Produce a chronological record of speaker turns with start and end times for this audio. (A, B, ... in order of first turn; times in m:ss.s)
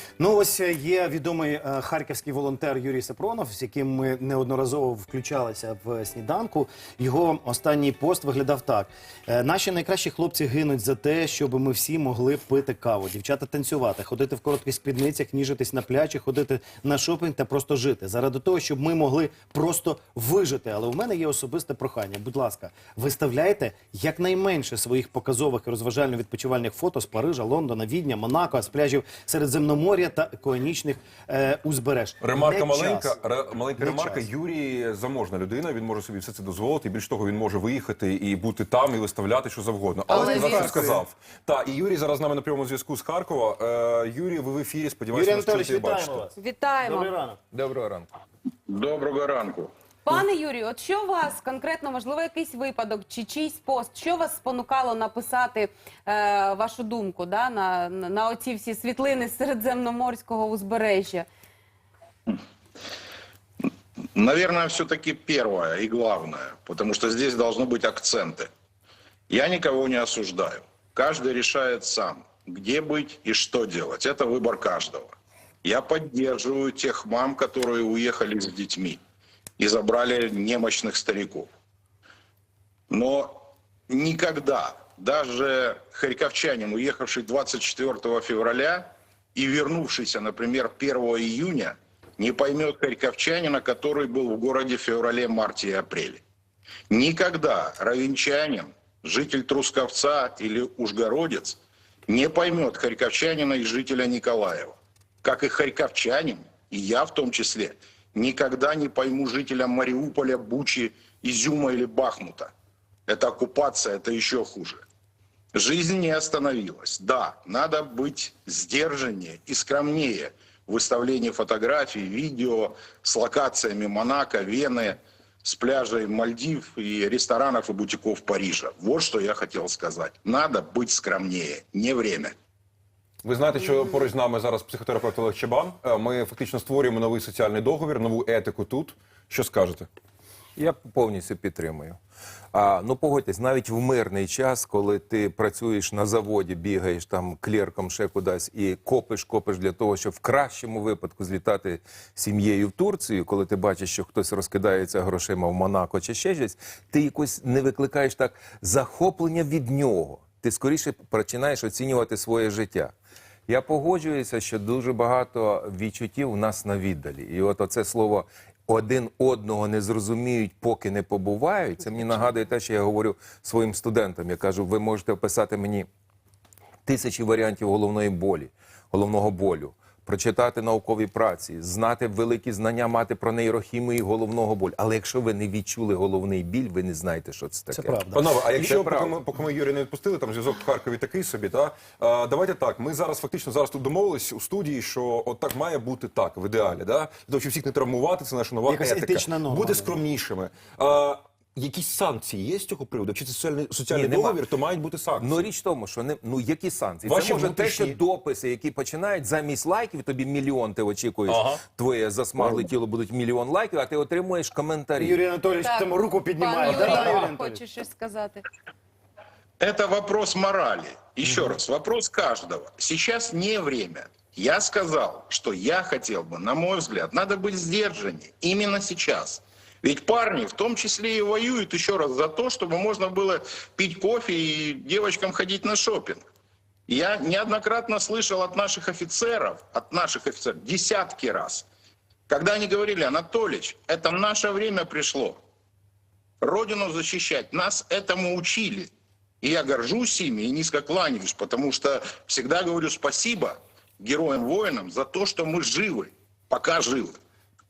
0:00.2-0:33.2 A
0:32.2-0:46.3 B
0:33.8-0:34.3 A
0:40.1-0:40.8 C
0:40.1-0:41.0 A
0:45.1-0:47.4 A
0:46.4-0:47.1 C
0:47.5-0:48.1 D
0:48.7-0:49.7 E
0:50.1-1:01.3 C
1:04.2-1:08.5 E
1:09.3-1:15.1 E
1:15.6-1:19.0 E
1:19.6-1:21.5 E
1:22.9-1:36.2 E
1:36.9-1:52.5 E
1:53.1-1:54.8 E
1:55.5-2:12.3 E
2:13.2-2:19.9 B
2:20.6-2:22.0 D
2:22.5-2:42.9 D
2:43.5-2:55.9 D
2:56.9-3:08.0 D
3:07.7-3:08.2 A
3:08.1-3:25.5 B
3:08.5-3:09.2 D
3:18.7-3:20.0 A
3:23.9-3:24.4 D
3:25.2-3:35.2 D
3:27.1-3:28.0 B
3:31.3-3:31.6 B
3:35.0-3:37.6 A
3:35.6-3:38.4 C
3:36.7-3:37.1 D
3:39.6-3:56.2 E
3:56.9-4:01.7 E
4:02.3-4:05.4 E
4:06.4-4:08.9 E
4:09.4-4:17.2 E